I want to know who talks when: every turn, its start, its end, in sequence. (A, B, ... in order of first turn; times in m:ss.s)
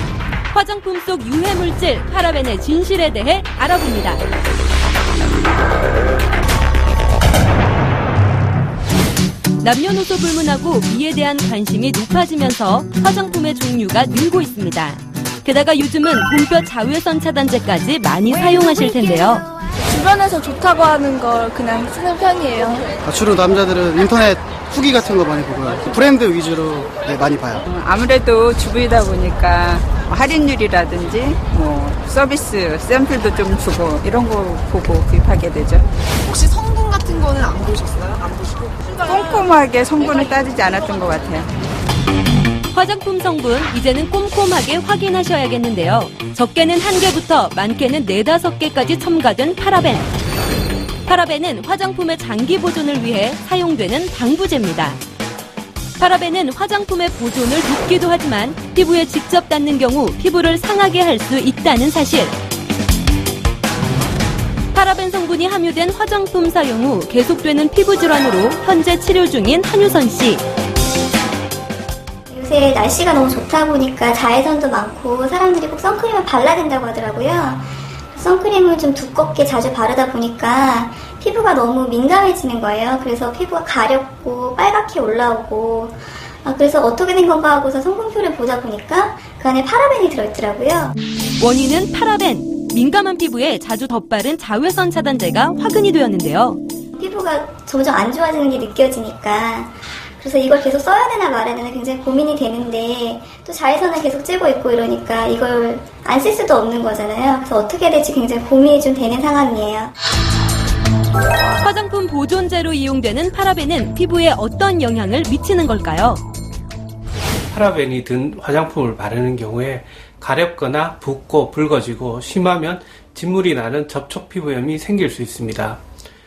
0:00.5-0:04.2 A
0:09.6-0:19.4 A
0:19.9-0:22.9 B
0:23.1-0:27.5 C
0:27.6-0:35.9 D
0:36.3-0:38.5 E
0:39.0-0:41.5 D
0:42.7-0:50.1 A
0:51.1-0:55.0 A
0:56.0-1:02.3 A
1:04.7-1:10.4 A
1:12.3-1:30.9 F
1:31.4-1:36.6 A
1:37.0-1:49.9 F
1:51.6-1:56.2 A
1:57.5-2:05.8 G